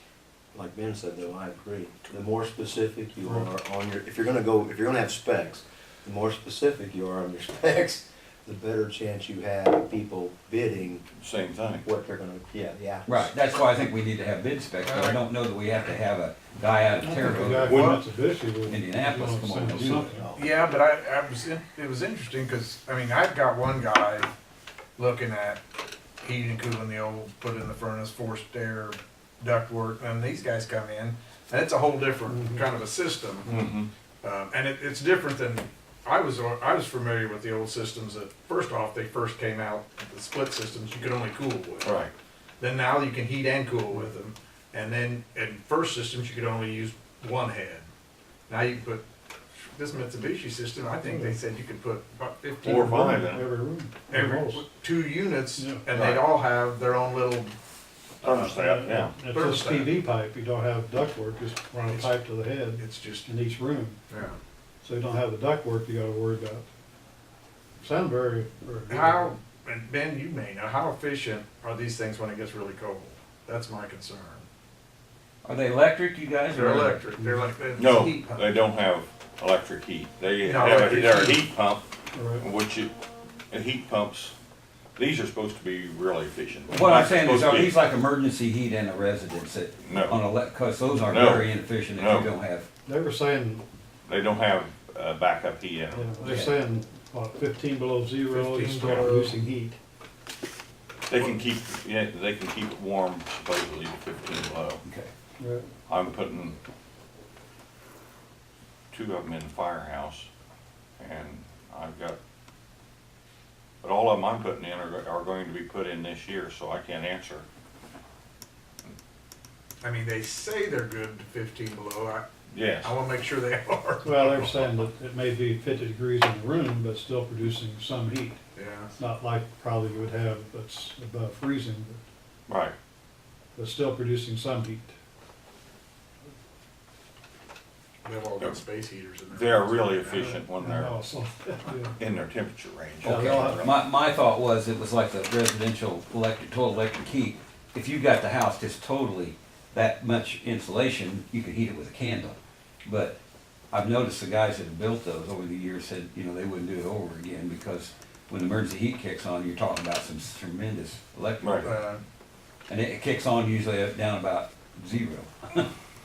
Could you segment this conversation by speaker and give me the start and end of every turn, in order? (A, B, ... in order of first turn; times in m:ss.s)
0:00.5-0:11.0 A
0:11.2-0:11.8 B
0:11.8-0:13.3 A
0:13.0-0:18.0 C
0:14.8-0:15.2 D
0:17.0-0:20.2 E
0:17.5-0:18.0 B
0:18.6-0:20.2 C
0:19.9-0:20.5 A
0:20.4-0:24.3 D
0:25.0-0:25.6 D
0:26.2-0:33.6 D
0:32.3-0:32.6 E
0:33.4-0:33.9 B
0:34.2-0:42.0 D
0:41.8-0:42.1 B
0:42.6-0:47.8 D
0:48.5-0:49.0 D
0:49.7-0:53.2 D
0:50.9-0:51.4 E
0:52.6-0:53.5 B
0:52.6-0:54.6 E
0:54.1-0:57.5 D
0:55.6-0:55.8 E
0:55.9-0:56.3 B
0:58.2-0:58.6 D
0:58.2-0:59.2 B
0:58.4-1:04.0 E
0:59.2-1:00.0 D
1:01.8-1:02.1 D
1:02.8-1:03.3 D
1:04.1-1:04.4 D
1:04.8-1:06.7 E
1:07.8-1:09.3 E
1:08.9-1:14.4 D
1:15.4-1:17.0 C
1:16.5-1:18.6 D
1:17.2-1:17.4 E
1:17.8-1:21.8 B
1:20.4-1:21.4 D
1:22.1-1:22.4 E
1:22.4-1:22.9 B
1:23.5-1:24.3 B
1:25.0-1:27.8 B
1:26.7-1:32.7 C
1:29.8-1:30.2 B
1:31.0-1:32.3 B
1:32.8-1:33.6 E
1:34.1-1:36.4 B
1:35.9-1:39.8 E
1:36.2-1:36.6 C
1:38.3-1:39.4 D
1:41.1-1:44.8 B
1:44.8-1:45.1 C
1:45.4-1:45.6 E
1:45.9-1:46.6 B
1:48.9-1:50.3 B
1:51.0-1:52.2 B
1:53.8-1:57.4 B
1:59.8-2:04.7 D
2:02.5-2:02.9 B
2:04.0-2:08.4 E
2:08.5-2:08.9 D
2:09.0-2:12.0 E
2:12.5-2:12.7 B
2:13.6-2:15.0 E
2:18.0-2:20.4 D
2:19.3-2:21.0 B
2:20.6-2:21.9 E
2:21.9-2:23.8 B
2:23.0-2:23.6 E
2:23.0-2:33.2 C
2:33.7-2:41.7 C
2:41.4-2:41.7 B
2:41.6-2:42.0 D
2:42.7-2:45.7 C